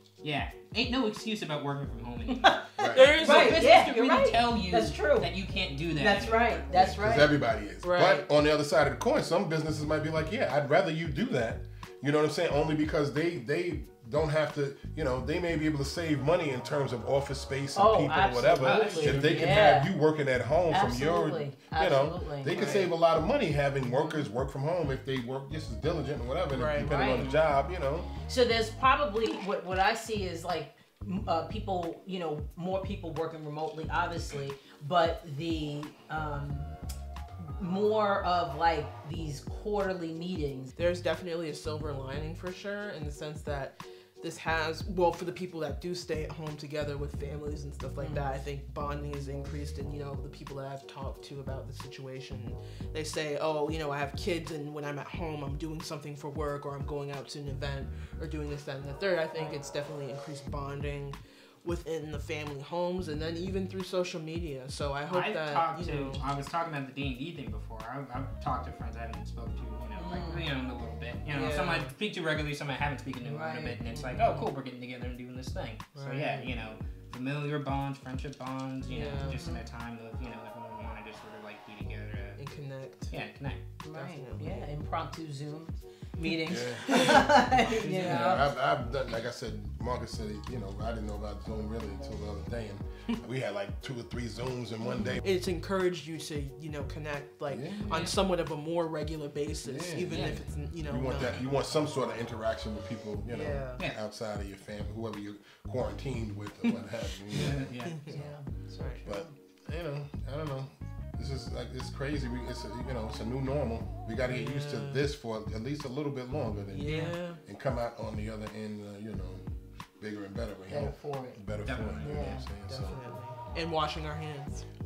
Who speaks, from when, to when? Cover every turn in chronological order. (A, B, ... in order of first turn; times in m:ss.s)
0:00.2-0:06.7 A
0:02.3-0:05.3 B
0:02.8-0:03.0 C
0:02.8-0:03.8 D
0:06.0-0:07.3 B
0:06.7-0:28.1 C
0:07.8-0:08.2 D
0:17.7-0:19.9 B
0:18.6-0:19.5 A
0:20.7-0:22.6 B
0:22.5-0:22.9 D
0:26.5-0:26.9 D
0:26.8-0:27.3 B
0:26.8-0:27.4 A
0:28.2-0:36.7 B
0:37.6-0:40.7 B
0:40.8-1:06.2 D
0:48.0-0:48.2 B
1:05.1-1:22.4 A
1:09.9-1:10.4 B
1:11.3-1:11.9 D
1:13.2-1:13.8 B
1:13.9-1:14.5 D
1:15.9-1:16.5 D
1:18.9-1:19.4 D
1:19.3-1:19.6 B
1:22.4-1:23.1 D
1:23.1-1:23.6 A
1:23.8-1:28.5 B
1:23.9-1:24.7 D
1:26.4-1:35.2 C
1:26.9-1:28.2 D
1:27.9-1:28.4 A
1:35.2-1:41.4 D
1:37.5-1:38.0 C
1:37.9-1:38.2 A
1:39.6-1:48.3 C
1:40.1-1:40.4 A
1:41.2-1:41.4 A
1:43.3-1:43.8 D
1:47.3-1:48.0 A
1:47.3-1:48.1 D
1:48.1-1:49.3 B
1:49.0-1:59.4 C
1:54.2-1:55.0 D
1:56.7-1:57.4 D
1:56.9-1:57.2 B
2:00.0-2:03.0 C
2:00.7-2:01.4 B
2:01.7-2:02.4 A
2:02.0-2:02.4 B
2:02.7-2:04.6 D